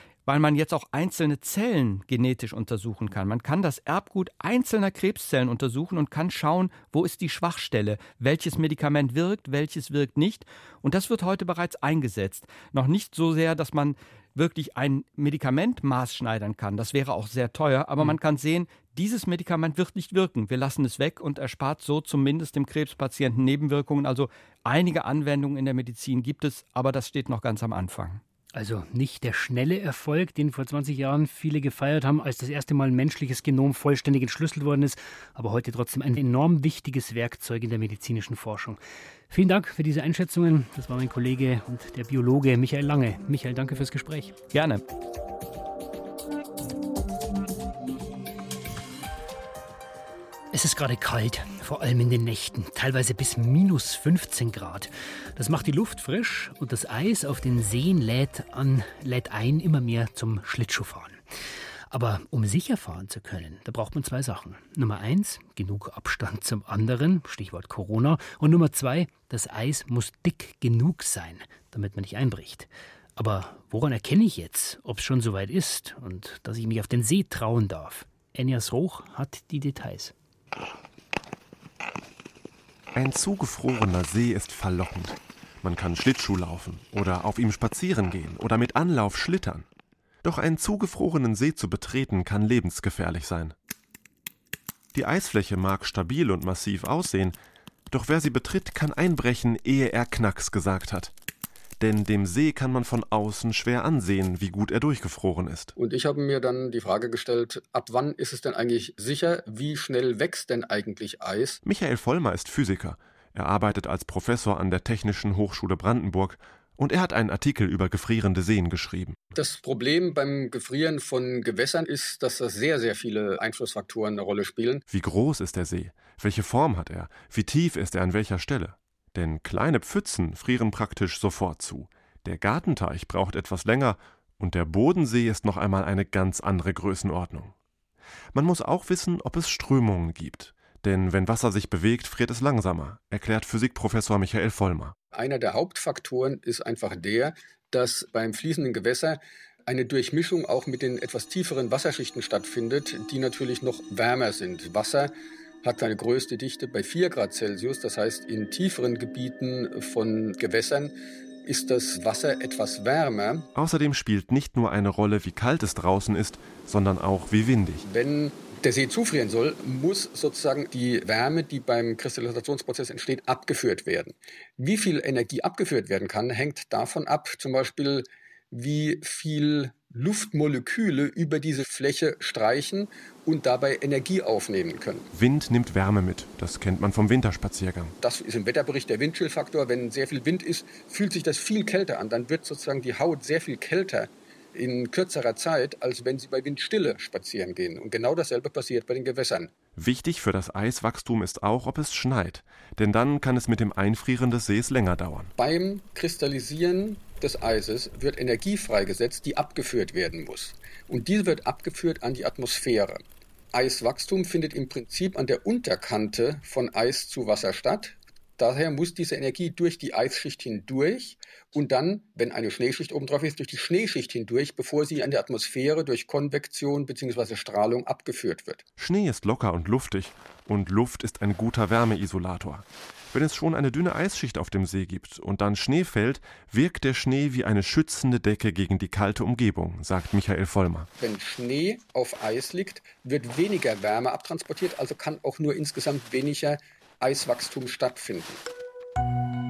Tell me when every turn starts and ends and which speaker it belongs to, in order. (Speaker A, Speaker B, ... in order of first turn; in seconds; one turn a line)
Speaker A: 0.3-28.2
Speaker B: 28.5-38.8
Speaker B: 39.3-44.4
Speaker A: 44.5-44.8
Speaker B: 50.5-61.2
Speaker B: 61.9-80.1
Speaker C: 82.9-89.7
Speaker C: 90.2-93.5
Speaker C: 94.9-97.4
Speaker C: 97.9-101.1
Speaker C: 101.8-105.7
Speaker D: 105.8-111.6
Speaker C: 111.6-119.2
Speaker D: 119.3-124.8
Speaker C: 124.9-137.5
Speaker C: 138.3-144.9
Speaker D: 145.1-155.1
Speaker D: 155.6-160.9
Speaker D: 161.4-163.5
Speaker C: 163.6-167.8
Speaker D: 167.8-185.1
Speaker C: 185.1-187.9
Speaker D: 188.0-199.5
Speaker C: 199.8-205.3
Speaker D: 205.4-228.6
Speaker C: 228.8-240.9
Speaker D: 241.0-248.4